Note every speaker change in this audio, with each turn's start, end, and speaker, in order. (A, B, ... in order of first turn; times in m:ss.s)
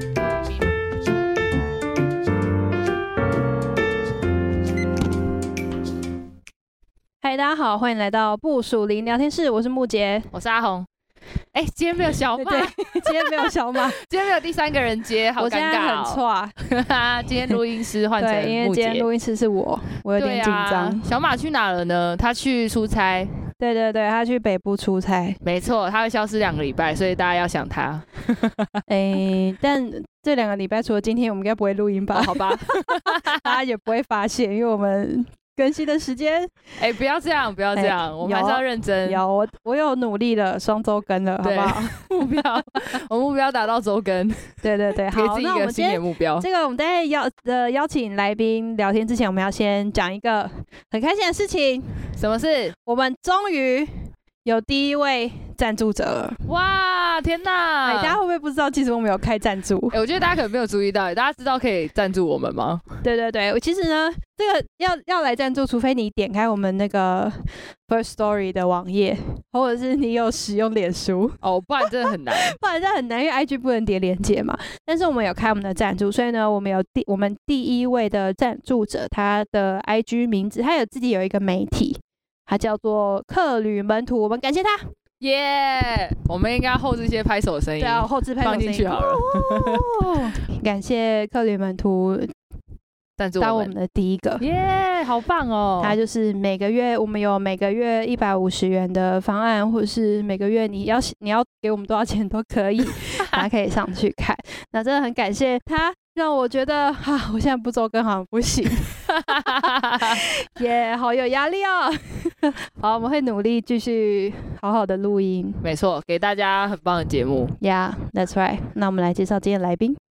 0:07.2-0:10.3 A
0:10.3-0:10.9 B
0:11.5-0:19.0 B
0:12.4-0:14.0 A
0:15.4-0:16.5 A
0:18.2-0:21.0 A
0:20.2-0:23.3 B
0:23.6-0:25.4 A
0:25.4-0:28.7 B
0:28.9-0:36.7 A
0:32.1-0:33.6 B
0:36.8-0:39.2 B
0:37.8-0:42.1 A
0:41.4-0:46.5 B
0:44.6-0:52.0 A
0:52.2-0:52.8 B
0:52.9-0:53.9 A
0:54.4-0:56.4 A
0:56.5-0:58.2 B
0:57.8-1:00.0 A
0:59.9-1:02.8 B
1:03.0-1:24.8 A
1:11.4-1:12.6 B
1:25.2-1:30.2 B
1:27.8-1:32.3 A
1:33.2-1:33.7 B
1:33.4-1:34.4 A
1:34.4-1:36.0 B
1:35.8-1:55.7 A
1:49.2-1:50.2 B
1:55.6-1:57.5 B
1:57.6-2:00.0 A